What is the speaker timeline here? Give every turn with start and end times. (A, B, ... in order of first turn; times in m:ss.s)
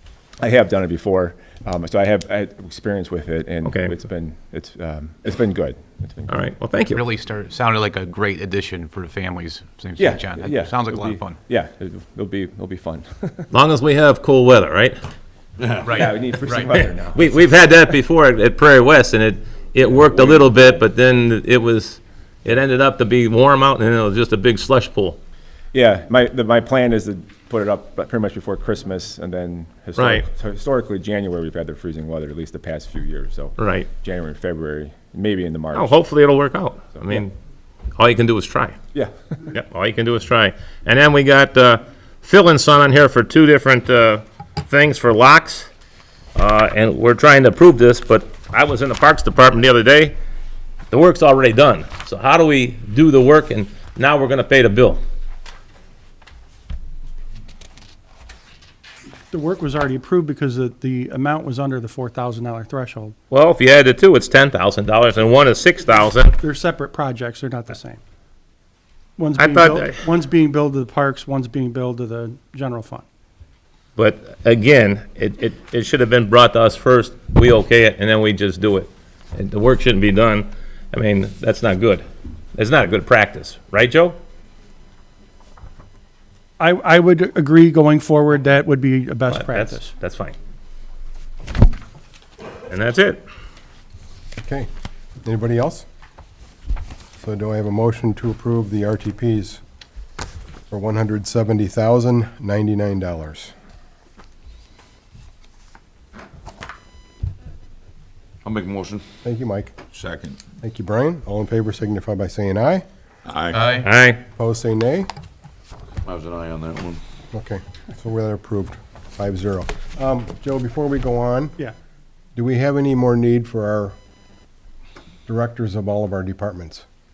0:00.4-0:06.3 A
0:03.6-0:03.9 B
0:06.3-0:07.0 B
0:06.9-0:11.4 C
0:10.0-0:13.5 A
0:13.5-0:15.0 B
0:15.8-0:16.7 C
0:15.8-0:17.4 A
0:17.0-0:25.2 B
0:19.9-0:20.4 A
0:25.7-0:36.0 A
0:30.0-0:30.3 B
0:33.6-0:33.9 B
0:35.7-0:37.3 B
0:38.0-0:38.8 B
0:39.5-0:45.7 B
0:46.4-0:50.2 B
0:50.9-0:55.0 B
0:59.3-1:03.2 D
1:03.3-1:06.4 B
1:06.4-1:08.0 D
1:09.2-1:13.1 D
1:09.4-1:09.9 B
1:14.0-1:22.0 B
1:22.6-1:24.2 B
1:26.6-1:29.9 D
1:29.3-1:30.4 B
1:32.7-1:33.2 B
1:34.4-1:34.7 E
1:35.2-1:35.9 E
1:37.2-1:39.6 E
1:40.7-1:43.5 E
1:48.4-1:49.1 F
1:49.2-1:49.7 E
1:49.9-1:50.4 F
1:50.6-1:52.8 E
1:53.2-1:53.8 F
1:53.5-1:53.8 C
1:53.8-1:54.2 B
1:54.4-1:55.1 E
1:56.0-1:57.0 F
1:57.3-2:01.6 E
2:02.4-2:04.0 E
2:05.3-2:06.8 E